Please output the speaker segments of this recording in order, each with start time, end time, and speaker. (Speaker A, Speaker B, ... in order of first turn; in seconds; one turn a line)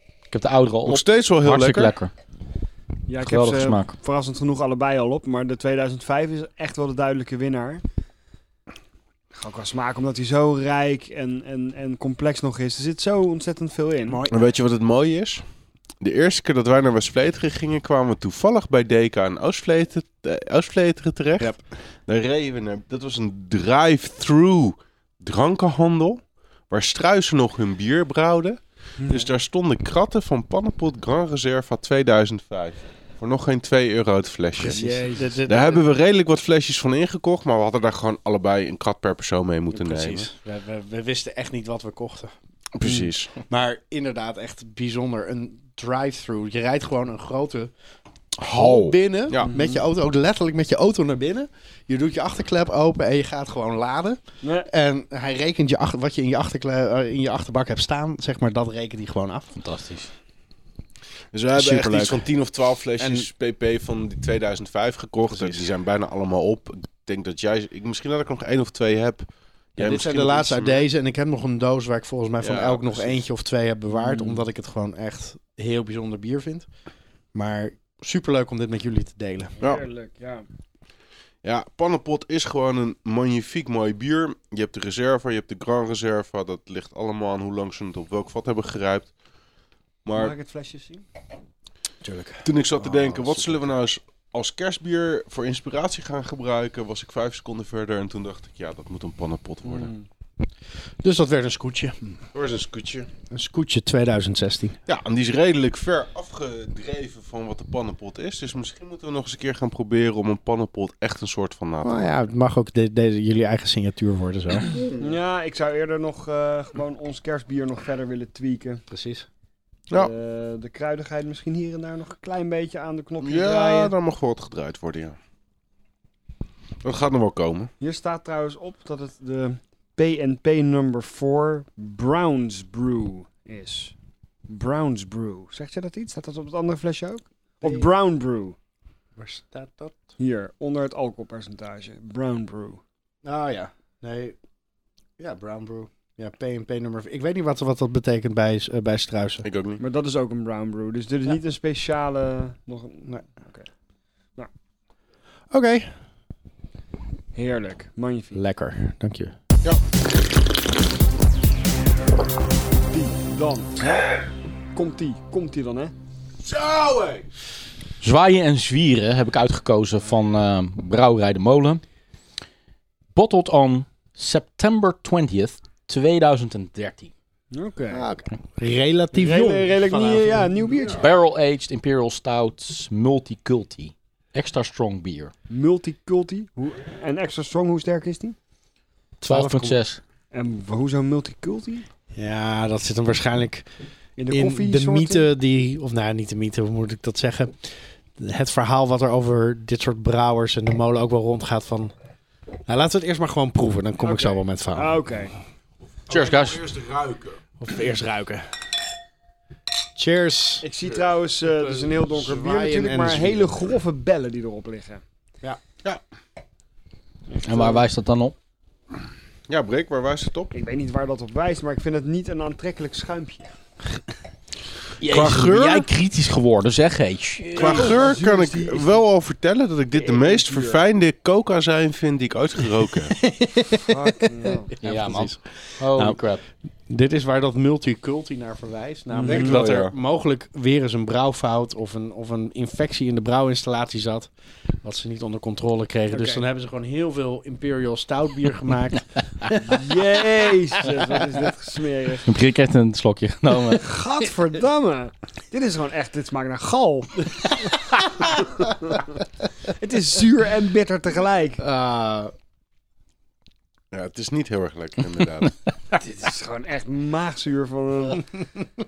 Speaker A: 0.3-2.1
Speaker B: 0.8-1.9
Speaker C: 3.1-7.8
Speaker A: 3.2-3.9
Speaker C: 9.3-14.2
Speaker D: 14.1-14.3
Speaker B: 14.3-15.4
Speaker B: 16.0-21.5
Speaker B: 22.1-40.3
Speaker C: 29.0-29.3
Speaker D: 34.6-35.9
Speaker C: 34.6-35.4
Speaker D: 39.7-42.3
Speaker B: 42.7-43.4
Speaker C: 42.8-43.1
Speaker D: 43.5-47.7
Speaker B: 48.4-49.5
Speaker D: 48.4-59.5
Speaker C: 49.4-49.8
Speaker C: 54.4-54.7
Speaker A: 59.5-60.1
Speaker B: 61.3-70.8
Speaker D: 61.5-62.2
Speaker D: 63.0-63.3
Speaker D: 65.3-65.7
Speaker D: 69.8-76.7
Speaker B: 72.4-73.2
Speaker D: 77.3-79.6
Speaker C: 79.6-80.5
Speaker B: 81.4-89.1
Speaker B: 90.0-90.3
Speaker C: 90.1-91.0
Speaker D: 92.0-93.6
Speaker B: 92.4-99.9
Speaker C: 99.6-100.0
Speaker D: 101.0-102.2
Speaker B: 102.3-103.1
Speaker D: 103.3-104.8
Speaker B: 104.9-112.1
Speaker D: 111.8-114.7
Speaker C: 114.9-118.8
Speaker D: 118.9-119.3
Speaker C: 119.9-123.9
Speaker B: 123.2-125.2
Speaker B: 126.8-127.7
Speaker C: 127.8-133.9
Speaker C: 134.5-138.6
Speaker D: 137.6-137.9
Speaker D: 139.2-140.1
Speaker C: 140.2-142.8
Speaker D: 143.2-144.3
Speaker D: 145.2-149.5
Speaker B: 149.4-149.8
Speaker C: 149.8-153.7
Speaker D: 155.5-155.9
Speaker C: 157.3-158.4
Speaker D: 158.3-159.3
Speaker C: 162.9-164.2
Speaker C: 164.7-165.9
Speaker B: 166.4-167.3
Speaker A: 168.0-171.8
Speaker A: 173.1-177.1
Speaker C: 177.5-178.1
Speaker D: 177.9-181.0
Speaker C: 179.1-181.1
Speaker A: 181.0-185.3
Speaker C: 185.5-188.3
Speaker D: 189.2-189.8
Speaker A: 189.2-190.0
Speaker C: 190.3-191.8
Speaker D: 192.1-193.7
Speaker C: 194.2-195.3
Speaker D: 194.3-201.9
Speaker D: 202.7-205.0
Speaker C: 204.0-205.3
Speaker B: 206.1-207.4
Speaker A: 206.1-206.6
Speaker D: 207.6-208.5
Speaker D: 209.9-210.7
Speaker C: 210.6-215.0
Speaker D: 212.0-213.5
Speaker C: 217.3-217.8
Speaker A: 217.4-218.3
Speaker B: 219.5-220.5
Speaker C: 220.5-223.5
Speaker A: 225.0-227.9
Speaker B: 225.0-225.9
Speaker C: 227.6-228.9
Speaker B: 227.6-233.2
Speaker C: 229.9-230.8
Speaker D: 233.2-236.2
Speaker C: 233.9-234.7
Speaker A: 234.8-236.4
Speaker D: 236.9-244.3
Speaker B: 239.2-239.9
Speaker C: 239.2-239.6
Speaker D: 244.8-249.7
Speaker C: 246.1-246.4
Speaker C: 249.6-252.3
Speaker A: 252.2-253.8
Speaker C: 253.7-259.0
Speaker C: 259.6-261.6
Speaker D: 261.6-262.3
Speaker B: 263.9-265.5
Speaker C: 265.9-268.4